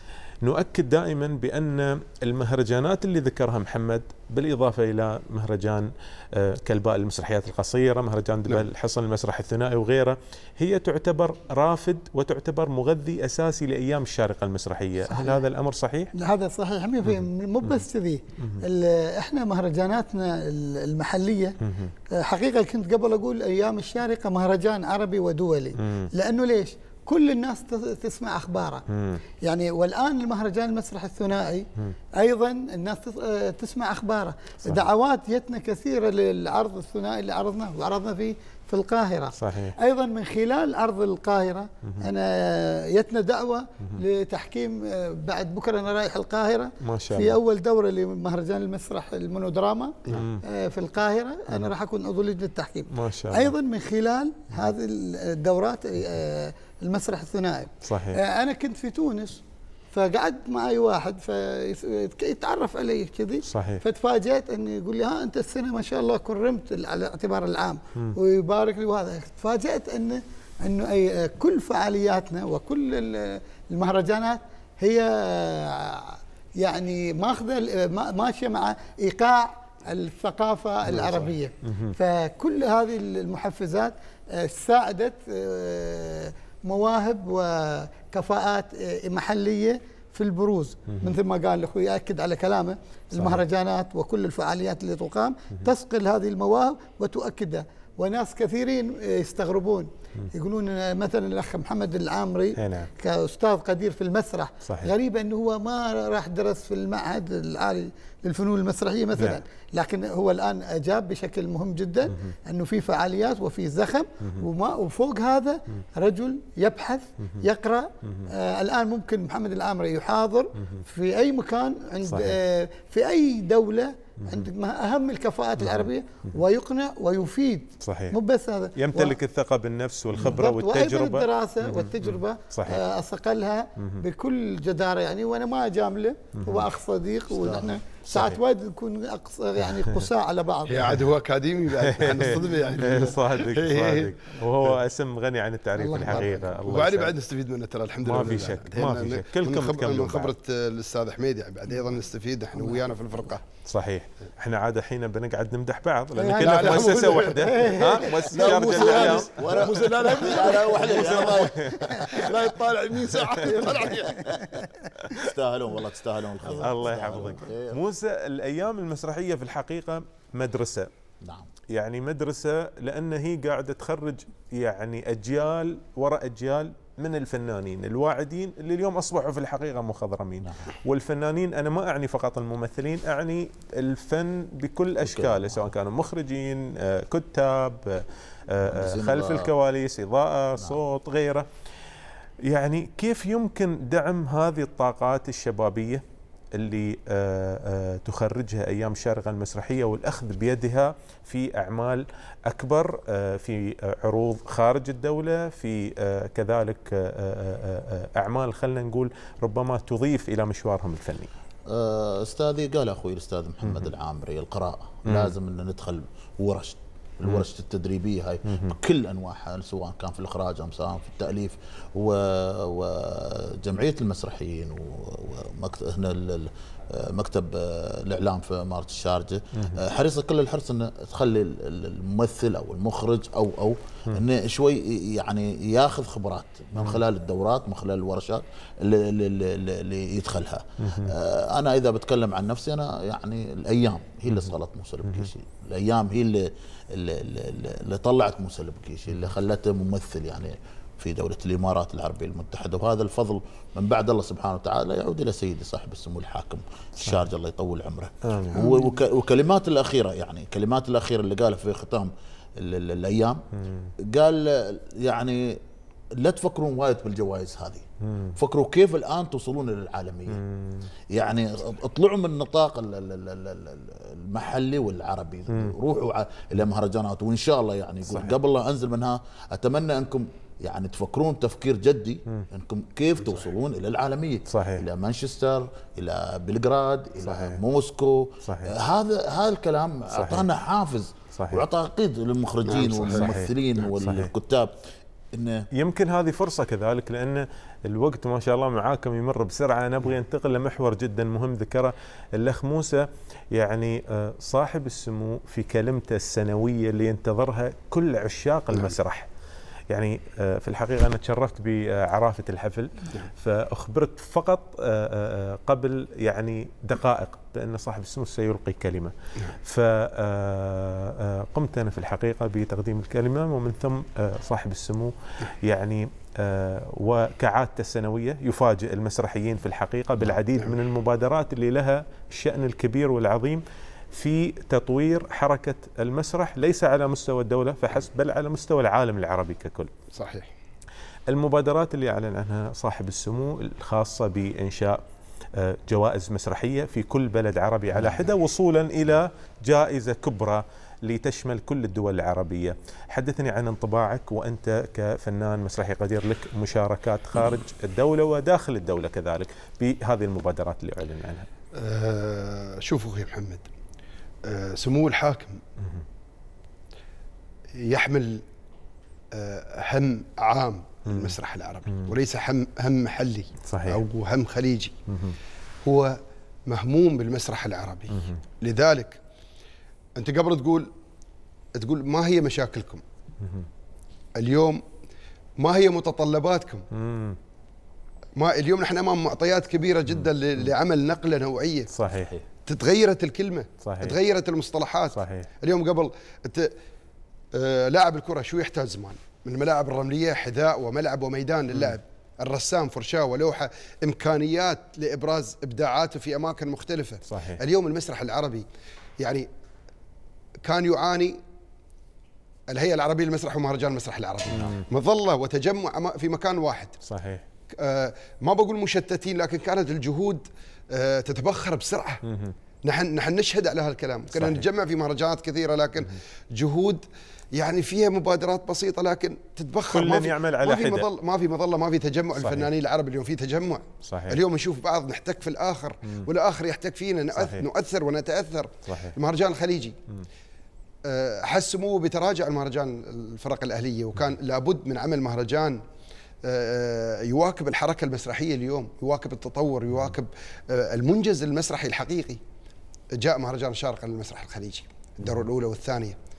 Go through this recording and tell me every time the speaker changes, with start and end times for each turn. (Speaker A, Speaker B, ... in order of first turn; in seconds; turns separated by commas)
Speaker A: 0.4-16.1, Speaker B: 15.1-15.4, Speaker B: 16.1-21.6, Speaker A: 17.1-17.7, Speaker A: 18.4-18.6, Speaker A: 21.6-21.9, Speaker B: 22.1-28.9, Speaker A: 25.8-26.1, Speaker A: 28.9-29.2, Speaker B: 29.4-129.2, Speaker A: 39.4-39.8, Speaker A: 46.8-47.4, Speaker A: 50.1-50.4, Speaker A: 52.9-53.5, Speaker A: 57.9-58.2, Speaker A: 63.5-63.8, Speaker A: 80.9-82.0, Speaker A: 93.1-93.4, Speaker A: 102.6-102.9, Speaker A: 104.7-104.9, Speaker A: 122.1-122.4, Speaker A: 125.6-125.9, Speaker A: 127.8-128.2, Speaker A: 128.8-132.8, Speaker B: 130.2-141.0, Speaker A: 136.4-136.7, Speaker C: 137.3-137.7, Speaker A: 138.1-138.4, Speaker D: 140.7-144.8, Speaker A: 141.8-147.2, Speaker B: 145.8-146.3, Speaker D: 145.9-153.4, Speaker A: 148.0-150.3, Speaker A: 153.7-159.9, Speaker B: 156.2-159.2, Speaker D: 156.4-164.4, Speaker C: 158.9-162.3, Speaker B: 160.0-160.5, Speaker A: 161.2-162.3, Speaker A: 163.1-163.8, Speaker B: 163.9-164.3, Speaker A: 165.0-165.3, Speaker C: 165.1-167.8, Speaker A: 166.6-170.9, Speaker C: 171.2-171.5, Speaker A: 171.7-191.5, Speaker C: 180.4-180.7, Speaker C: 185.0-185.7, Speaker C: 188.7-189.5, Speaker A: 192.4-196.0, Speaker A: 196.5-211.3, Speaker C: 211.7-263.4, Speaker A: 215.1-215.3, Speaker A: 218.5-218.8, Speaker A: 240.8-241.1, Speaker A: 258.2-258.7, Speaker B: 258.6-258.9, Speaker A: 263.7-263.9, Speaker C: 264.0-265.6, Speaker C: 266.2-270.4, Speaker A: 268.1-268.4, Speaker A: 270.5-270.9, Speaker C: 271.1-294.8, Speaker A: 284.5-284.9, Speaker A: 287.2-287.6, Speaker A: 288.4-288.7, Speaker A: 290.1-290.5, Speaker A: 291.4-291.6, Speaker D: 292.7-293.4, Speaker A: 293.1-294.3, Speaker C: 295.3-295.7, Speaker A: 295.8-309.3, Speaker A: 309.9-339.9, Speaker D: 330.2-330.8, Speaker D: 340.1-340.5, Speaker A: 341.3-345.0, Speaker A: 345.6-361.5, Speaker D: 347.9-348.3, Speaker D: 361.8-363.7, Speaker D: 364.4-365.6, Speaker D: 367.8-368.4, Speaker D: 369.3-374.9, Speaker A: 371.1-371.4, Speaker A: 373.7-374.0, Speaker A: 375.1-375.4, Speaker D: 375.8-379.2, Speaker A: 378.1-378.4, Speaker D: 380.2-380.9, Speaker D: 381.8-383.0, Speaker A: 383.4-383.7, Speaker D: 384.4-384.8, Speaker D: 385.6-386.9, Speaker A: 386.9-387.4, Speaker D: 388.4-391.9, Speaker A: 390.1-390.7, Speaker A: 391.9-392.4, Speaker D: 392.7-396.7, Speaker A: 393.8-394.2, Speaker A: 395.1-395.5, Speaker D: 397.5-408.7, Speaker A: 407.3-407.6, Speaker D: 409.2-409.5, Speaker D: 410.6-411.4, Speaker D: 412.7-417.0, Speaker A: 414.5-414.8, Speaker A: 417.1-417.4, Speaker D: 417.7-422.2, Speaker A: 422.2-422.5, Speaker D: 422.8-427.0, Speaker A: 424.3-424.6, Speaker D: 427.5-440.0, Speaker A: 429.9-431.1, Speaker A: 432.4-432.7, Speaker A: 434.0-434.4, Speaker A: 437.4-437.7, Speaker A: 438.9-439.2, Speaker D: 441.1-445.8, Speaker D: 446.4-452.4, Speaker D: 453.2-456.2